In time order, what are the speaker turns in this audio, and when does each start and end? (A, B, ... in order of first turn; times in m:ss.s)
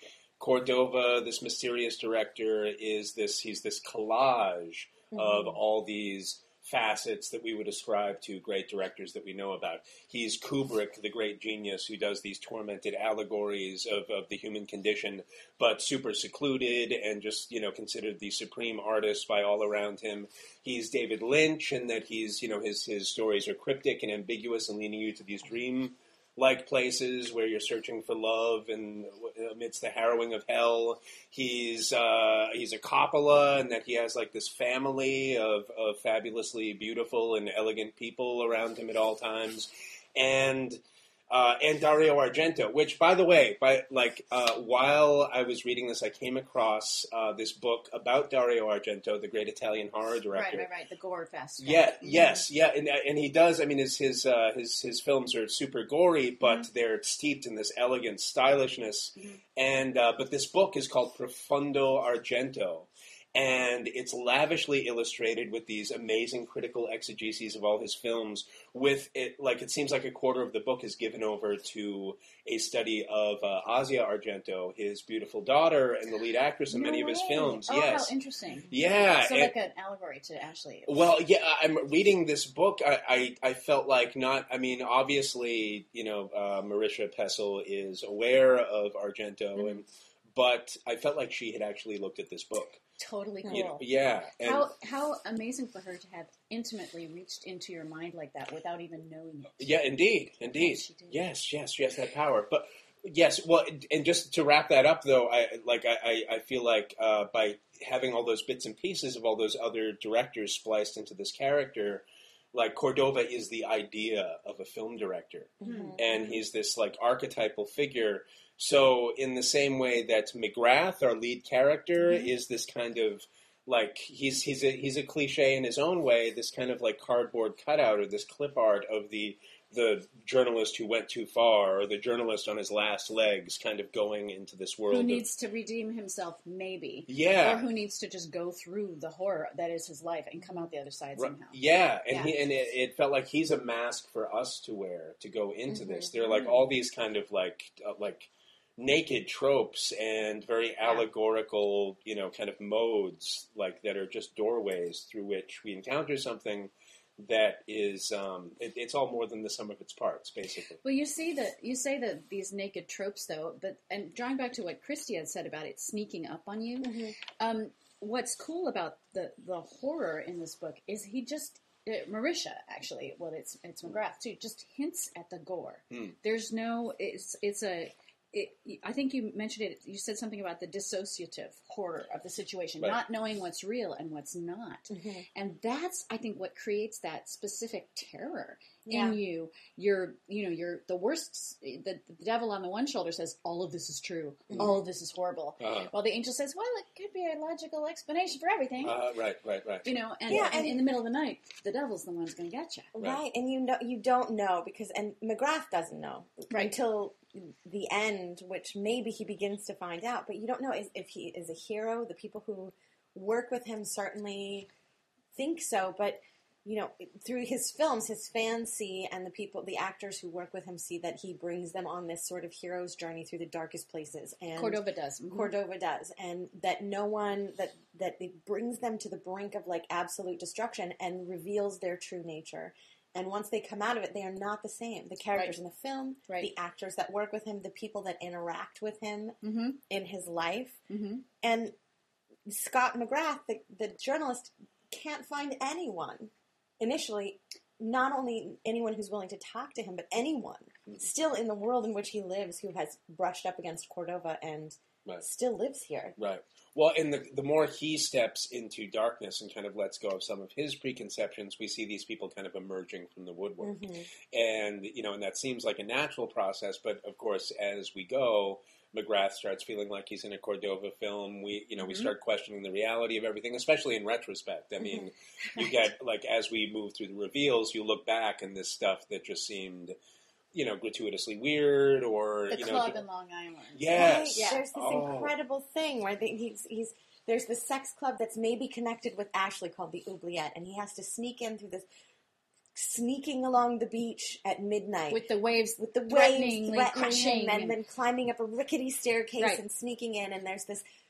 0:00.4-0:50.7 A
0:05.1-0:05.6 B
0:50.3-0:52.0 C
0:51.6-1:18.1 A
0:52.0-0:52.4 B
0:56.4-0:56.7 C
0:59.2-0:59.4 C
1:16.7-1:20.9 C
1:18.7-1:19.5 A
1:20.8-1:32.8 A
1:29.6-1:29.8 C
1:33.0-1:33.8 C
1:33.5-1:34.7 A
1:34.4-1:39.7 C
1:39.6-2:15.2 A
1:40.5-1:41.2 C
1:55.6-1:56.0 B
1:55.6-1:56.2 C
2:14.9-2:21.6 C
2:17.1-2:17.6 A
2:21.2-2:40.8 A
2:25.7-2:26.0 B
2:26.2-2:26.6 C
2:40.8-3:19.0 C
2:46.8-2:47.2 B
3:04.9-3:05.2 B
3:08.9-3:09.2 B
3:14.5-3:14.8 B
3:15.6-3:15.9 A
3:18.8-3:19.9 A
3:19.8-3:22.9 C
3:20.3-3:20.8 B
3:22.9-3:34.7 B
3:35.3-3:59.4 B
3:44.5-3:45.5 C
3:59.4-3:59.8 C
3:59.9-4:00.8 B
4:00.9-4:01.2 C
4:01.4-4:01.7 B
4:02.4-4:16.1 B
4:16.2-4:40.0 A
4:23.6-4:24.1 B
4:31.8-4:32.1 C
4:34.8-4:35.1 B
4:40.5-4:43.0 A
4:42.5-4:44.6 C
4:43.7-4:45.3 A
4:44.0-4:51.8 B
4:52.7-4:55.2 B
4:55.1-4:57.8 C
4:55.8-5:00.8 B